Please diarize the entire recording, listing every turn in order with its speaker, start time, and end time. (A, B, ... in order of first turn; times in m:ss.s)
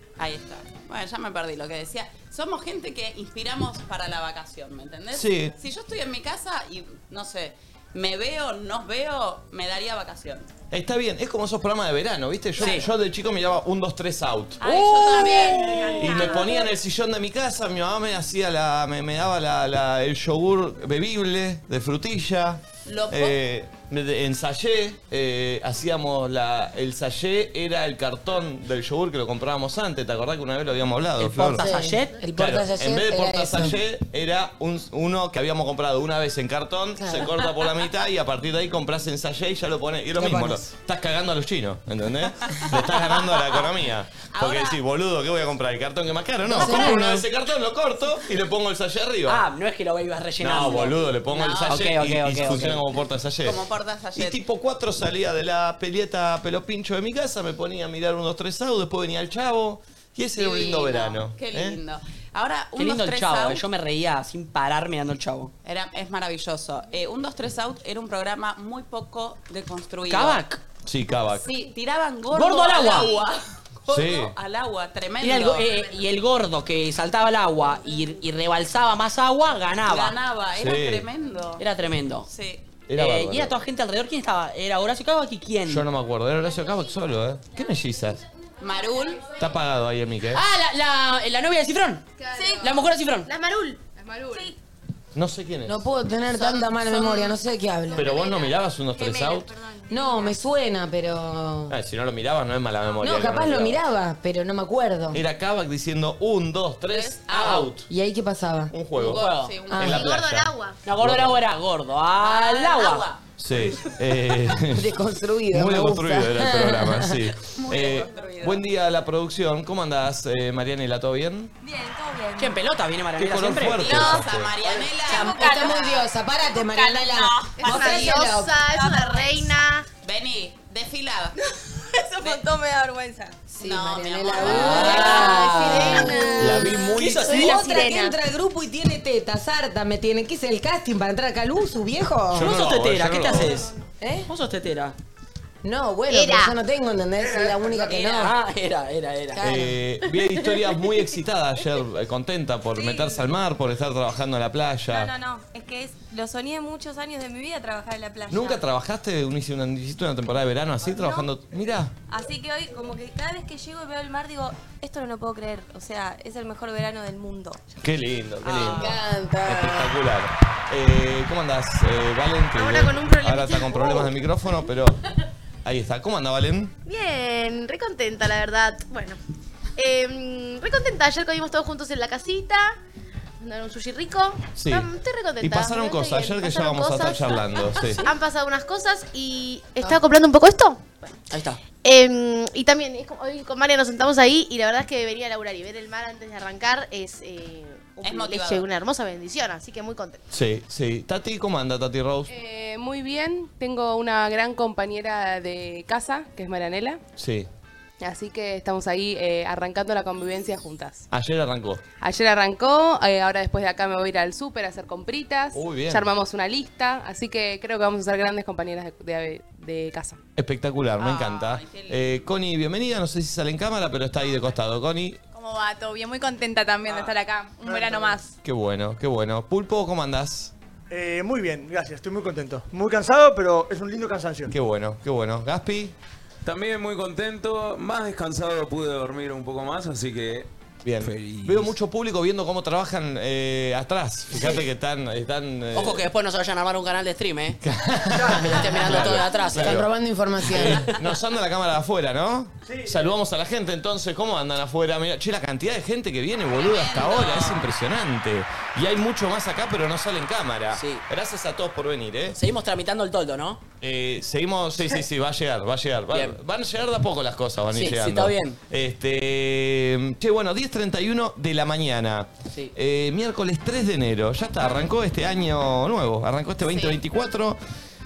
0:00.2-0:10.5 A
0:05.1-0:05.5 B
0:10.7-0:15.2 B
0:12.6-0:12.9 C
0:14.6-0:16.5 A
0:15.1-0:16.4 D
0:16.0-0:31.6 B
0:22.9-0:23.4 A
0:31.2-0:32.2 C
0:31.4-0:33.8 E
0:32.4-0:49.4 B
0:37.0-0:37.3 E
0:44.3-0:44.8 A
0:46.5-0:47.3 E
0:49.3-0:51.0 C
0:50.4-0:53.6 B
0:51.3-0:51.9 A
0:51.7-0:52.8 C
0:53.4-0:54.4 A
0:54.2-1:01.8 B
1:00.4-1:03.6 A
1:02.8-1:05.5 C
1:05.6-1:10.4 A
1:10.1-1:10.6 C
1:10.8-1:11.5 B
1:11.4-1:15.7 A
1:12.3-1:13.1 C
1:13.9-1:14.4 B
1:15.2-1:20.1 C
1:19.8-1:21.6 A
1:20.6-1:21.0 B
1:21.6-1:22.3 C
1:22.3-1:22.6 A
1:22.9-1:23.5 B
1:23.0-1:25.8 C
1:25.7-1:28.2 B
1:28.6-1:29.4 A
1:29.4-1:30.4 B
1:30.3-1:32.0 C
1:32.2-1:34.5 F
1:32.6-1:33.3 C
1:35.1-1:35.8 B
1:35.6-1:38.1 E
1:36.3-1:37.4 A
1:38.0-1:39.5 B
1:38.2-1:40.4 D
1:39.9-1:41.8 E
1:41.7-1:43.8 B
1:43.0-1:45.2 E
1:45.1-1:47.9 B
1:46.9-1:47.7 A
1:47.9-1:48.7 E
1:48.7-1:49.2 B
1:49.0-1:50.0 A
1:49.0-1:49.5 C
1:49.7-1:50.1 E
1:49.8-1:51.4 B
1:49.8-1:50.8 F
1:50.8-1:53.1 C
1:52.2-1:53.2 A
1:53.4-1:54.9 B
1:54.7-1:57.3 E
1:55.5-2:01.5 B
1:57.6-1:58.6 A
2:01.6-2:02.6 D
2:02.4-2:04.2 C
2:03.2-2:04.5 B
2:03.8-2:06.1 A
2:05.1-2:05.7 D
2:05.2-2:08.6 E
2:06.7-2:11.4 A
2:07.6-2:09.9 F
2:12.2-2:12.5 A
2:12.2-2:13.3 D
2:13.5-2:16.3 E
2:13.6-2:15.7 A
2:14.4-2:17.6 C
2:14.6-2:18.2 F
2:16.4-2:17.5 B
2:17.2-2:22.6 E
2:22.3-2:23.7 B
2:22.4-2:23.7 C
2:24.0-2:24.3 E
2:24.3-2:25.0 C
2:25.6-2:28.3 E
2:26.1-2:26.5 F
2:27.2-2:28.0 G
2:27.9-2:29.5 C
2:29.4-2:29.8 E
2:29.4-2:35.1 B
2:32.8-2:33.3 D
2:34.9-2:38.6 D
2:38.3-2:41.9 B
2:40.9-2:41.3 D
2:42.1-2:47.6 D
2:47.8-2:55.0 B
2:48.6-2:49.9 E
2:52.5-2:54.1 F
2:55.6-2:56.8 B
2:56.8-2:59.2 F
2:59.8-3:02.8 F
3:03.4-3:11.1 F
3:04.6-3:08.0 B
3:11.3-3:11.6 C
3:11.8-3:20.2 F
3:18.0-3:18.7 A
3:20.3-3:22.3 B
3:22.3-3:27.0 H
3:27.2-3:27.5 B
3:28.0-3:31.1 H
3:31.1-3:31.8 B
3:32.0-3:40.2 H
3:35.5-3:36.1 B
3:40.4-3:45.2 B
3:41.0-3:42.2 A
3:45.7-3:45.9 D
3:47.6-3:48.2 G
3:48.4-3:50.5 B
3:50.9-3:54.5 G
3:54.5-3:56.0 B
3:56.4-4:00.5 I
4:00.8-4:06.1 B
4:05.7-4:07.6 C
4:07.6-4:09.9 B
4:08.1-4:08.7 G
4:08.2-4:09.0 E
4:08.5-4:09.8 C
4:09.6-4:10.9 E
4:10.5-4:10.9 C
4:10.6-4:22.4 B
4:12.6-4:13.0 G
4:16.5-4:17.7 A
4:20.7-4:21.0 C
4:22.3-4:23.6 C
4:23.8-4:37.6 B
4:26.1-4:26.4 C
4:27.7-4:28.6 C
4:36.6-4:37.0 A